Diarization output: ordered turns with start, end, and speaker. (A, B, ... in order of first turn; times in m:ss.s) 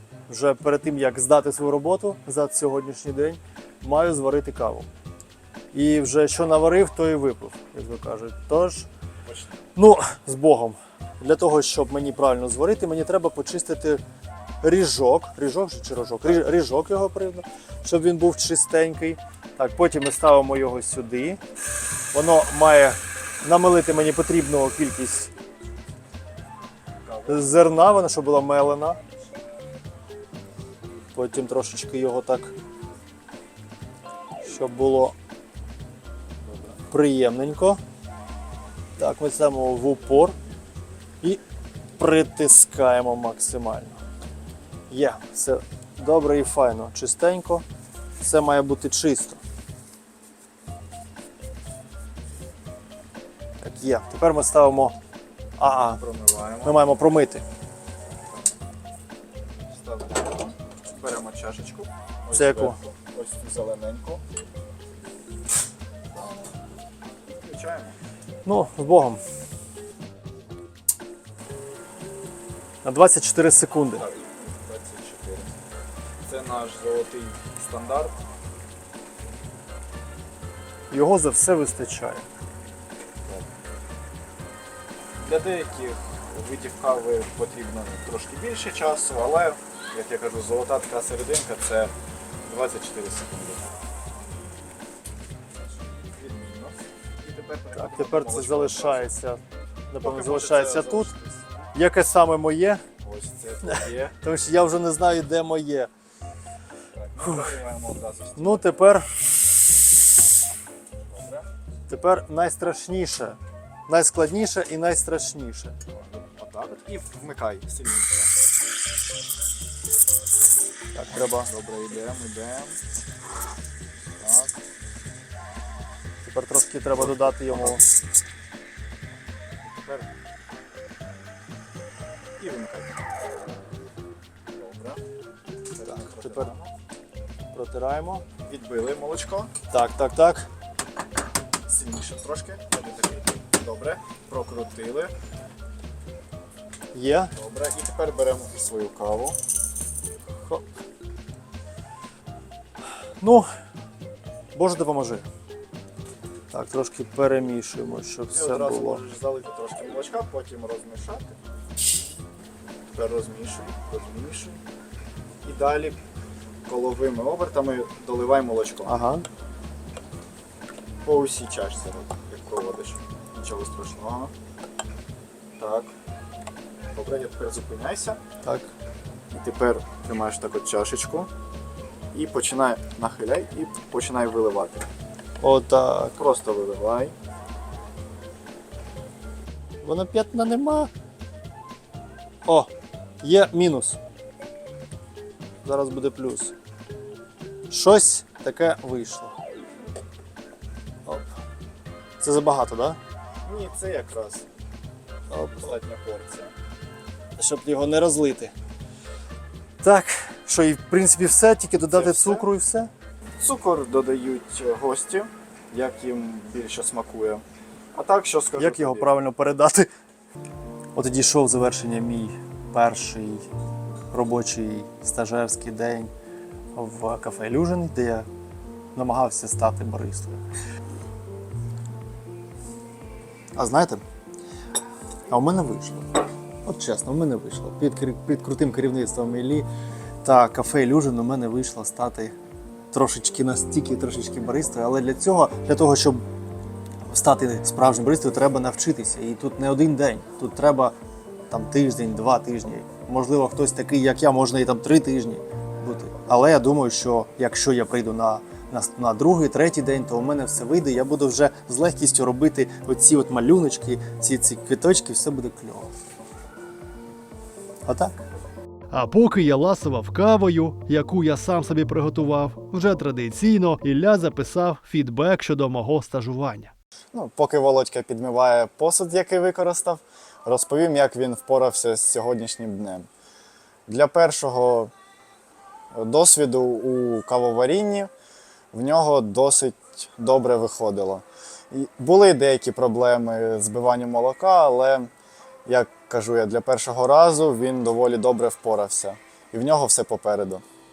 0:00.3-0:04.9 A
0:05.7-0:08.9 A
0:09.3-0:09.6 B
0:09.8-0:14.0 A
0:14.6-0:21.4 A
0:22.1-0:25.3 A
0:27.0-0:27.6 B
0:27.3-0:29.0 A
0:31.1-0:32.6 A
0:34.4-0:35.2 A
0:36.4-0:36.8 B
0:36.9-0:37.8 A
0:39.0-0:40.4 A
0:42.0-0:44.0 A
0:44.9-0:47.6 A
0:48.2-0:49.4 A
0:53.6-0:55.0 A
0:55.6-0:56.0 A
0:56.0-0:56.8 B
0:56.6-0:57.4 A
0:59.7-1:04.2 B
1:02.3-1:02.8 A
1:06.1-1:06.5 B
1:07.3-1:08.0 B
1:08.4-1:09.2 A
1:12.8-1:14.1 A
1:13.9-1:15.5 B
1:16.2-1:18.2 B
1:20.9-1:22.2 A
1:25.2-1:31.9 B
1:32.5-1:33.6 B
1:35.9-1:39.1 B
1:37.7-1:41.1 A
1:40.0-1:41.7 B
1:41.7-1:42.8 A
1:43.0-1:44.2 B
1:43.7-1:45.9 A
1:46.9-1:48.8 B
1:47.2-1:47.6 A
1:48.4-1:49.1 A
1:51.1-1:51.4 B
1:51.9-1:55.8 A
1:55.9-1:58.3 B
2:00.9-2:01.5 A
2:01.1-2:02.8 B
2:04.2-2:04.5 B
2:06.3-2:07.8 A
2:07.0-2:07.8 B
2:09.6-2:10.1 B
2:12.4-2:13.0 B
2:14.5-2:15.0 B
2:15.8-2:16.7 B
2:15.8-2:16.5 A
2:17.5-2:18.2 A
2:18.5-2:19.5 B
2:19.7-2:20.5 A
2:21.7-2:25.1 B
2:26.9-2:27.3 A
2:27.3-2:29.4 B
2:33.2-2:33.5 A
2:34.6-2:35.3 A
2:36.5-2:39.0 A
2:38.3-2:41.3 B
2:42.9-2:44.6 B
2:45.4-2:46.0 B
2:46.7-2:49.0 B
2:48.9-2:49.2 A
2:51.0-2:54.3 B
2:55.6-2:55.9 B
2:57.0-2:58.2 B
2:58.4-2:58.7 A
2:59.3-3:01.3 B
3:02.1-3:04.9 B
3:05.4-3:06.1 A
3:06.2-3:07.1 B
3:09.8-3:10.9 A
3:12.5-3:12.7 A
3:13.2-3:14.0 A
3:15.6-3:16.5 A
3:17.7-3:19.4 A
3:22.2-3:23.0 A
3:23.4-3:24.5 B
3:25.3-3:25.7 A
3:25.5-3:26.5 B
3:27.4-3:28.5 A
3:29.8-3:32.9 A
3:31.8-3:32.5 B
3:33.4-3:37.4 B
3:37.9-3:39.1 B
3:38.6-3:39.9 A
3:41.0-3:43.4 A
3:44.1-3:46.1 A
3:46.8-3:48.3 A
3:49.0-3:50.4 A
3:53.6-3:54.0 A
3:55.3-3:59.7 A
4:00.2-4:02.4 A
4:02.9-4:06.2 A
4:07.1-4:11.0 A
4:11.5-4:25.9 A
4:27.9-4:28.2 A
4:28.9-4:36.7 C
4:37.1-4:43.1 B
4:43.9-4:44.9 B
4:46.0-4:48.1 B
4:48.7-4:55.1 B
4:55.7-5:00.6 B